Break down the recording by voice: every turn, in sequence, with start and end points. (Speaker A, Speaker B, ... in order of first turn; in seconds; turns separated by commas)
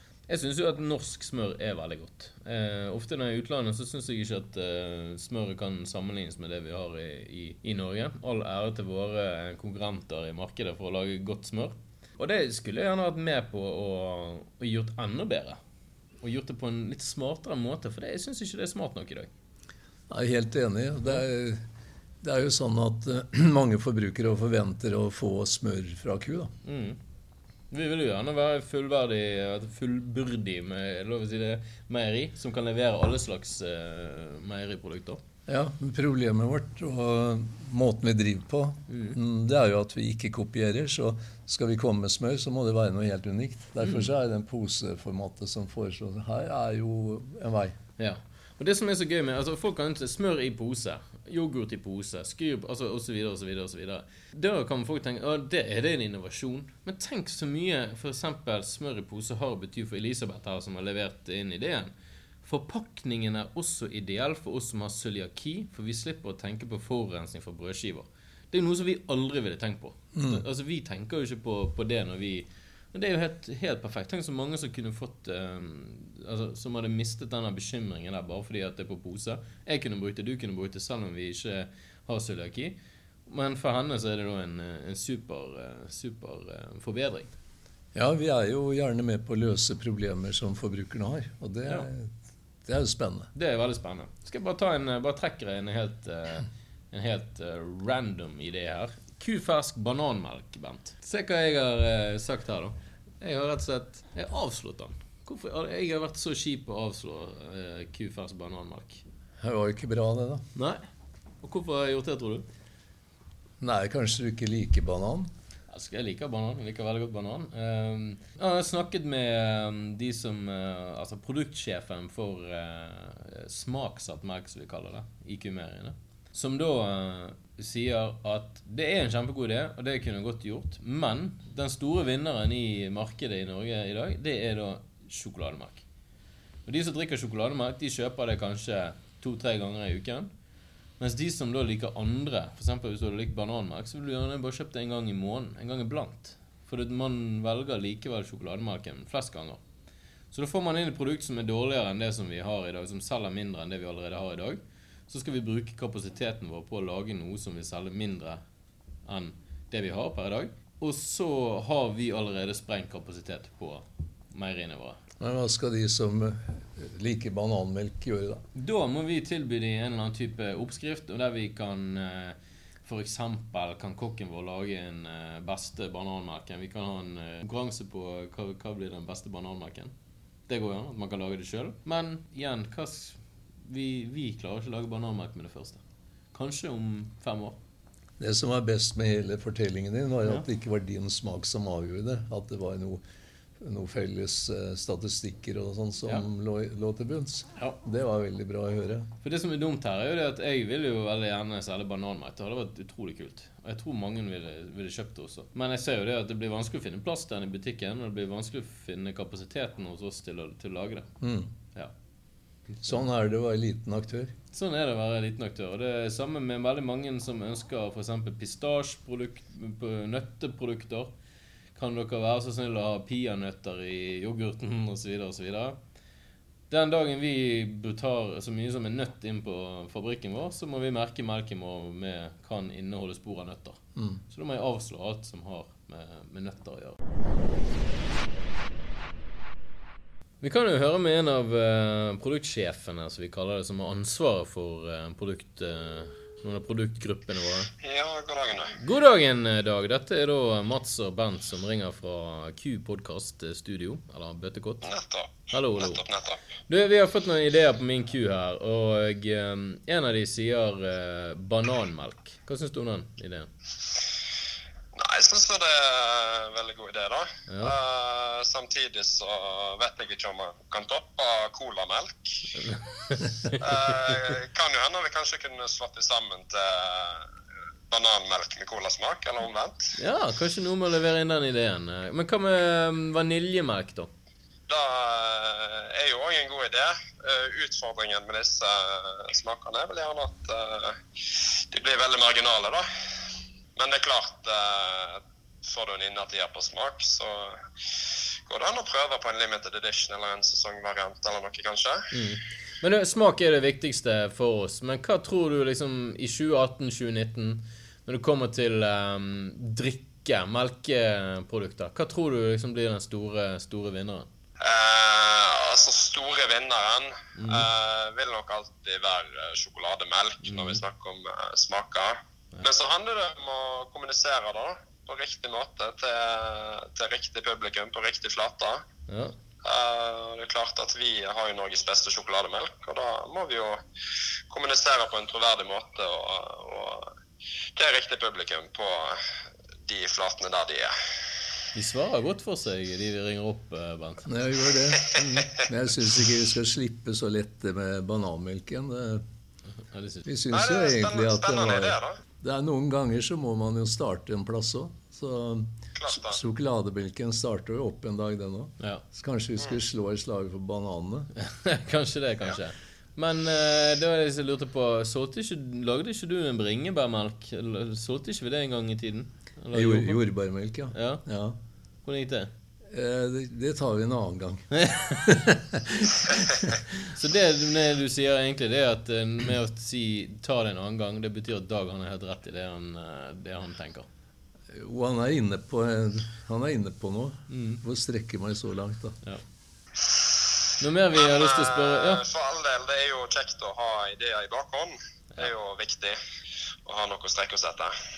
Speaker A: 0.3-15.6, Speaker A: 16.2-19.3, Speaker B: 20.1-21.6, Speaker B: 22.2-26.5, Speaker A: 26.6-27.0, Speaker A: 27.7-35.2, Speaker B: 35.5-47.7, Speaker A: 38.9-39.2, Speaker A: 43.8-44.1, Speaker A: 48.0-61.9, Speaker A: 62.4-87.3, Speaker B: 70.1-70.4, Speaker B: 87.9-92.1, Speaker B: 92.6-93.3, Speaker A: 93.3-109.0, Speaker B: 109.4-110.4, Speaker A: 110.5-110.8, Speaker A: 111.4-112.4, Speaker B: 113.6-115.3, Speaker A: 115.7-135.8, Speaker A: 136.7-140.3, Speaker A: 141.0-149.6, Speaker A: 150.3-158.4, Speaker A: 159.1-165.0, Speaker B: 165.2-168.4, Speaker A: 168.5-179.9, Speaker A: 180.5-185.8, Speaker A: 186.3-187.6, Speaker B: 188.2-193.0, Speaker B: 193.6-199.1, Speaker A: 199.2-211.1, Speaker B: 211.2-211.5, Speaker B: 212.8-214.3, Speaker A: 214.5-221.1, Speaker A: 221.8-225.8, Speaker A: 226.7-237.0, Speaker A: 240.4-247.7, Speaker C: 247.8-248.7, Speaker A: 248.7-254.9, Speaker C: 254.8-256.4, Speaker A: 255.5-256.0, Speaker A: 256.6-263.5, Speaker C: 264.9-272.4, Speaker A: 267.5-267.7, Speaker A: 272.6-273.6, Speaker C: 273.6-277.3, Speaker C: 277.9-279.9, Speaker A: 280.0-284.1, Speaker C: 284.7-292.9, Speaker C: 293.8-302.1, Speaker A: 302.1-314.3, Speaker C: 314.6-328.8, Speaker A: 317.4-317.7, Speaker A: 320.4-320.8, Speaker A: 329.1-329.4, Speaker C: 329.6-333.8, Speaker C: 334.5-337.1, Speaker C: 337.8-339.2, Speaker C: 339.9-340.9, Speaker A: 341.7-344.3, Speaker B: 344.2-349.2, Speaker A: 345.1-345.5, Speaker A: 349.9-350.2, Speaker B: 350.2-361.3, Speaker C: 350.5-352.2, Speaker C: 355.9-356.4, Speaker A: 361.4-370.2, Speaker B: 369.7-371.6, Speaker A: 370.9-371.2, Speaker A: 372.0-372.5, Speaker B: 372.9-376.8, Speaker A: 374.8-375.4, Speaker A: 376.9-384.1, Speaker B: 384.7-389.2, Speaker A: 387.5-387.8, Speaker A: 390.8-392.2, Speaker C: 391.1-396.2, Speaker C: 396.8-397.9